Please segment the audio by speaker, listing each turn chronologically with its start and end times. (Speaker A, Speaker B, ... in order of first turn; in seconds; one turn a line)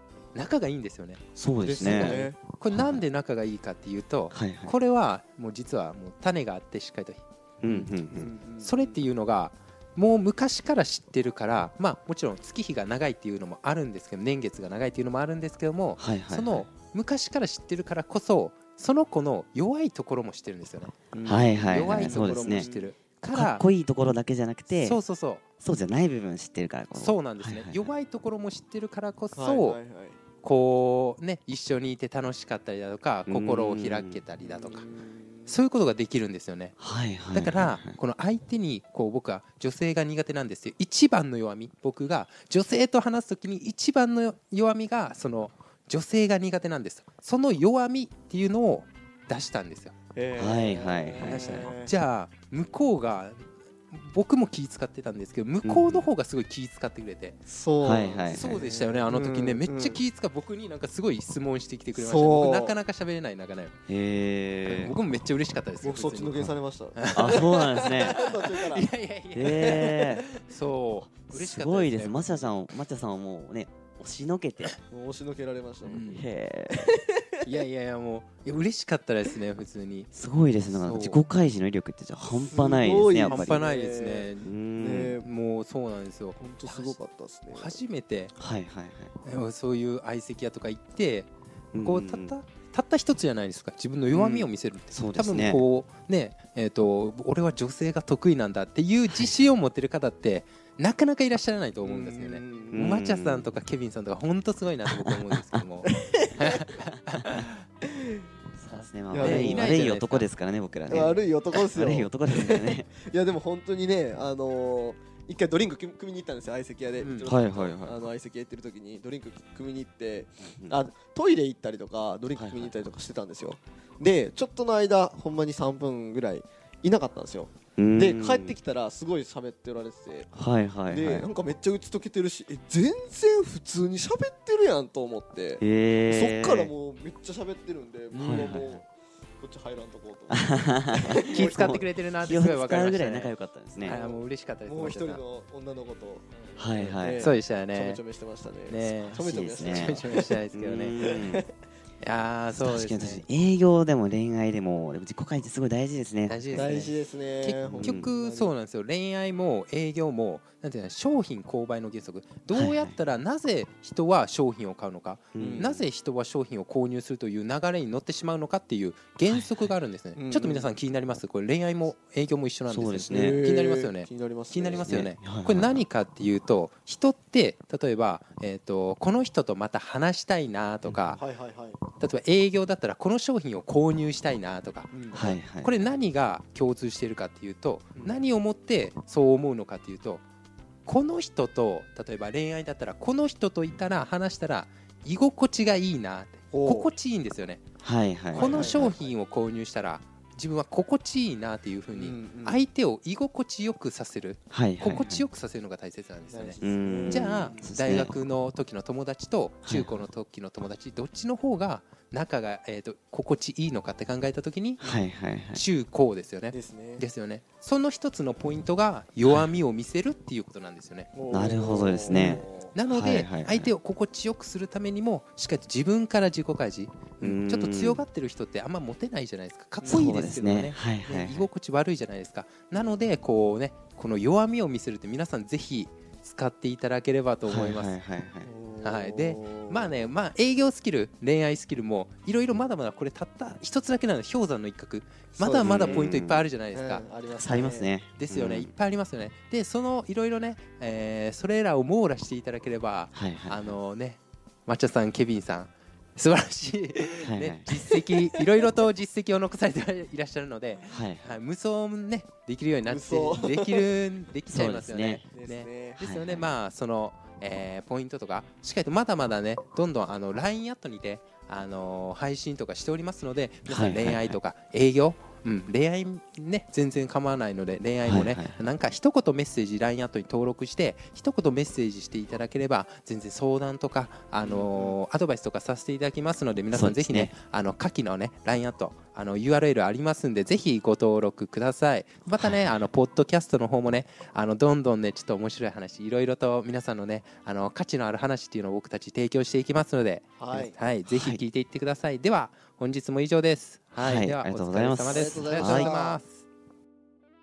Speaker A: 0.3-1.2
Speaker B: 1.4-3.0
Speaker C: 1.6-2.4
Speaker A: 1.8-21.0
Speaker B: 4.3-4.7
Speaker B: 7.6-8.3
Speaker C: 8.1-9.0
Speaker B: 16.0-16.6
Speaker C: 21.1-22.9
Speaker B: 21.2-22.7
Speaker A: 21.5-23.6
Speaker B: 23.3-25.0
Speaker A: 24.7-25.4
Speaker B: 25.6-27.9
Speaker A: 26.9-29.8
Speaker C: 29.4-30.2
Speaker A: 30.4-34.9
Speaker B: 33.3-34.2
Speaker C: 34.4-35.5
Speaker A: 35.5-36.8
Speaker B: 36.8-38.0
Speaker A: 37.3-49.9
Speaker C: 50.1-51.9
Speaker B: 50.4-51.7
Speaker A: 51.2-57.4
Speaker B: 55.6-56.1
Speaker C: 57.5-60.0
Speaker B: 57.8-58.5
Speaker A: 58.3-63.7
Speaker C: 61.9-62.8
Speaker B: 63.9-64.9
Speaker A: 64.6-72.2
Speaker C: 65.8-68.9
Speaker B: 67.1-68.2
Speaker B: 69.3-70.2
Speaker B: 71.1-74.7
Speaker C: 74.9-76.1
Speaker A: 75.8-76.3
Speaker B: 76.1-76.8
Speaker C: 76.7-77.4
Speaker A: 77.4-80.1
Speaker B: 80.1-83.6
Speaker A: 80.6-81.2
Speaker C: 82.5-85.3
Speaker A: 83.2-84.5
Speaker B: 84.4-85.2
Speaker A: 85.2-87.0
Speaker C: 86.3-87.8
Speaker A: 87.5-88.3
Speaker B: 88.4-89.1
Speaker A: 89.2-91.3
Speaker B: 91.7-92.3
Speaker A: 91.8-107.6
Speaker C: 94.1-94.5
Speaker B: 94.9-95.6
Speaker B: 99.1-99.5
Speaker C: 101.8-102.9
Speaker B: 102.7-103.6
Speaker C: 105.8-106.6
Speaker B: 108.6-112.9
Speaker C: 109.1-109.8
Speaker A: 109.2-110.3
Speaker C: 110.9-130.3
Speaker A: 117.0-117.3
Speaker B: 117.2-118.0
Speaker B: 120.4-120.8
Speaker B: 122.3-122.7
Speaker B: 127.8-128.6
Speaker B: 130.3-131.3
Speaker C: 130.9-138.9
Speaker B: 135.6-136.7
Speaker B: 138.1-138.8
Speaker A: 138.2-138.5
Speaker C: 139.4-141.8
Speaker B: 140.3-144.0
Speaker A: 141.3-145.2
Speaker C: 143.8-150.4
Speaker B: 146.6-147.3
Speaker A: 147.2-148.0
Speaker A: 148.7-151.0
Speaker B: 149.0-150.0
Speaker B: 150.5-151.4
Speaker C: 150.9-151.5
Speaker A: 152.0-153.2
Speaker B: 152.5-156.8
Speaker A: 156.3-181.2
Speaker C: 156.5-158.5
Speaker B: 157.7-158.1
Speaker B: 162.5-162.9
Speaker B: 165.3-165.9
Speaker C: 165.3-165.7
Speaker B: 169.3-169.7
Speaker C: 170.1-170.7
Speaker B: 172.7-173.4
Speaker C: 173.1-175.0
Speaker B: 174.9-175.8
Speaker B: 180.8-181.2
Speaker C: 181.2-181.8
Speaker A: 181.9-190.2
Speaker C: 184.9-185.2
Speaker B: 185.1-185.8
Speaker C: 187.9-188.2
Speaker A: 190.8-197.6
Speaker C: 196.5-196.9
Speaker B: 197.8-199.0
Speaker C: 198.3-199.1
Speaker A: 198.3-215.0
Speaker C: 201.9-202.6
Speaker B: 204.5-205.2
Speaker C: 206.3-207.7
Speaker B: 206.6-208.1
Speaker B: 209.7-210.0
Speaker B: 214.8-215.6
Speaker A: 215.5-221.1
Speaker C: 216.5-217.1
Speaker B: 219.2-219.5
Speaker C: 221.1-222.7
Speaker B: 221.3-223.7
Speaker A: 222.1-237.9
Speaker B: 227.2-228.0
Speaker C: 229.8-230.1
Speaker B: 229.8-231.5
Speaker B: 237.4-238.5
Speaker C: 238.4-240.1
Speaker A: 238.8-247.1
Speaker C: 245.3-246.2
Speaker B: 245.6-246.5
Speaker C: 246.7-247.9
Speaker B: 247.4-248.7
Speaker A: 248.1-306.4
Speaker B: 253.1-253.8
Speaker B: 257.2-257.7
Speaker B: 260.9-261.4
Speaker C: 262.9-263.9
Speaker B: 264.5-265.2
Speaker C: 265.3-266.0
Speaker B: 266.0-266.5
Speaker B: 273.7-274.4
Speaker B: 278.0-278.6
Speaker C: 284.4-284.9
Speaker B: 286.7-287.3
Speaker B: 292.4-292.8
Speaker C: 300.4-300.8
Speaker B: 301.1-301.4
Speaker B: 303.9-305.9
Speaker C: 305.1-306.2